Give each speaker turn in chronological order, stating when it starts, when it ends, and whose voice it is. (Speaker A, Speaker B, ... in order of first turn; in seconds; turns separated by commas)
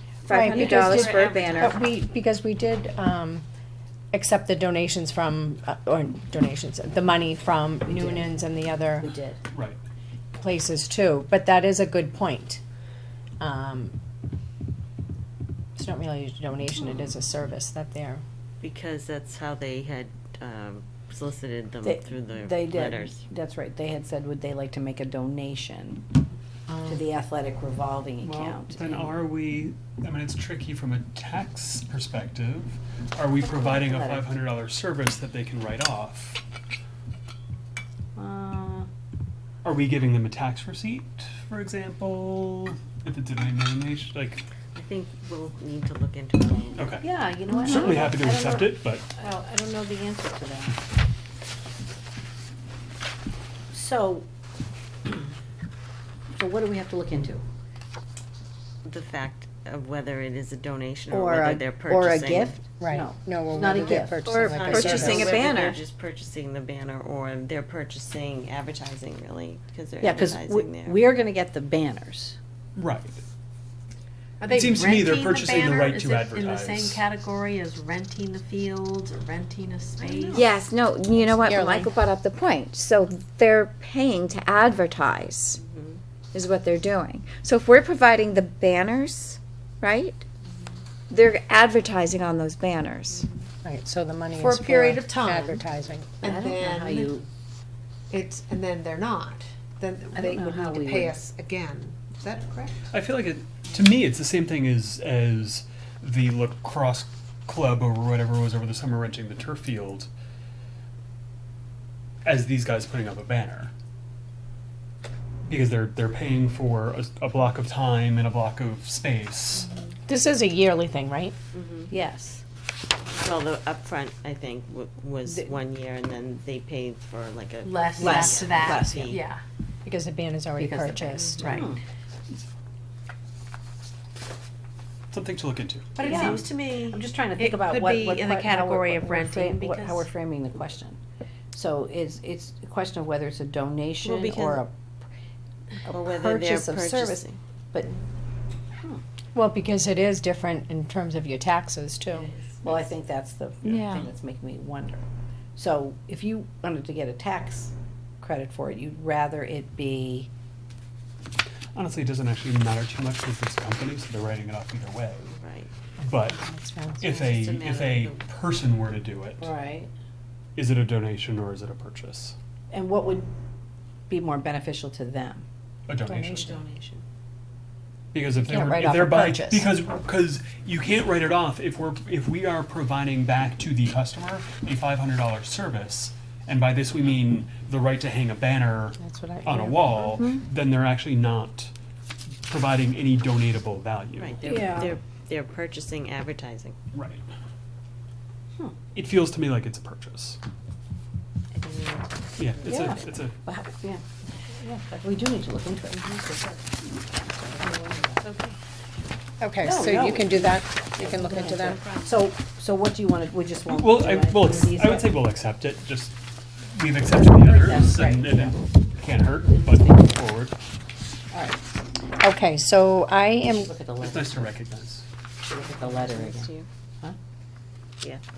Speaker A: 0.2-1.8, Speaker B: 0.3-3.4, Speaker C: 0.4-1.4, Speaker D: 0.9-1.6, Speaker B: 4.1-9.1, Speaker C: 7.8-8.3, Speaker C: 9.0-9.4, Speaker E: 9.5-9.8, Speaker B: 10.4-12.6, Speaker B: 13.4-13.9, Speaker B: 15.8-18.2, Speaker D: 18.6-23.2, Speaker C: 21.8-26.0, Speaker B: 26.7-27.0, Speaker C: 26.8-29.2, Speaker E: 28.2-36.4, Speaker C: 33.4-34.3, Speaker C: 38.1-38.9, Speaker E: 39.6-44.4, Speaker D: 44.7-47.0, Speaker E: 46.7-47.1, Speaker C: 47.0-50.8, Speaker E: 47.6-49.0, Speaker C: 53.7-54.2, Speaker C: 56.3-57.4, Speaker D: 58.8-62.6, Speaker C: 61.1-64.2, Speaker B: 62.8-65.3, Speaker A: 64.2-65.8, Speaker D: 64.3-71.2, Speaker E: 64.7-65.2, Speaker C: 70.0-72.4, Speaker E: 72.8-73.2, Speaker F: 74.4-80.5, Speaker E: 74.5-77.0, Speaker C: 80.0-80.5, Speaker A: 80.3-85.6, Speaker B: 81.4-81.9, Speaker D: 85.6-86.0, Speaker A: 86.3-90.2, Speaker A: 91.1-93.2, Speaker B: 93.6-96.2, Speaker F: 94.4-95.6, Speaker F: 96.2-97.2, Speaker C: 96.2-97.2, Speaker F: 98.1-102.9, Speaker C: 100.1-101.2, Speaker E: 102.9-110.1, Speaker E: 112.2-113.7, Speaker E: 115.5-119.7, Speaker B: 120.1-121.3, Speaker D: 121.5-121.9, Speaker C: 121.9-122.4, Speaker D: 123.2-129.2, Speaker C: 125.2-125.5, Speaker F: 127.6-129.4, Speaker C: 128.0-129.1, Speaker B: 129.8-131.6, Speaker C: 130.6-131.8, Speaker F: 131.4-131.7, Speaker E: 135.1-136.1, Speaker F: 135.9-140.1, Speaker C: 136.0-141.0, Speaker C: 141.5-144.7, Speaker D: 144.0-144.6, Speaker C: 145.8-147.9, Speaker D: 145.9-147.4, Speaker B: 149.3-152.3, Speaker D: 152.1-152.9, Speaker C: 152.6-155.0, Speaker E: 153.6-153.9, Speaker A: 153.7-154.1, Speaker C: 155.6-160.3, Speaker E: 161.7-165.3, Speaker D: 165.3-165.7, Speaker E: 166.0-166.4, Speaker B: 166.3-167.2, Speaker E: 167.0-169.5, Speaker D: 167.0-168.2, Speaker C: 169.4-169.9, Speaker E: 170.6-172.3, Speaker C: 172.7-173.3, Speaker C: 174.1-175.4, Speaker E: 175.9-176.5, Speaker B: 176.1-176.6, Speaker D: 176.2-177.0, Speaker E: 178.1-191.7, Speaker B: 178.4-179.7, Speaker B: 189.0-190.1, Speaker E: 192.5-194.9, Speaker D: 194.2-196.8, Speaker C: 194.4-195.0, Speaker E: 196.9-197.2, Speaker E: 198.9-200.4, Speaker D: 201.6-203.1, Speaker E: 202.4-203.4, Speaker C: 202.6-204.0, Speaker C: 204.5-206.1, Speaker C: 207.4-208.2, Speaker B: 209.4-211.8, Speaker C: 209.6-215.2, Speaker E: 213.7-216.2, Speaker E: 216.7-220.5, Speaker C: 217.4-218.6, Speaker C: 219.4-220.2, Speaker C: 221.3-221.6, Speaker B: 222.2-223.7, Speaker C: 223.4-224.5, Speaker E: 224.0-225.1, Speaker C: 225.5-227.2, Speaker D: 225.6-226.7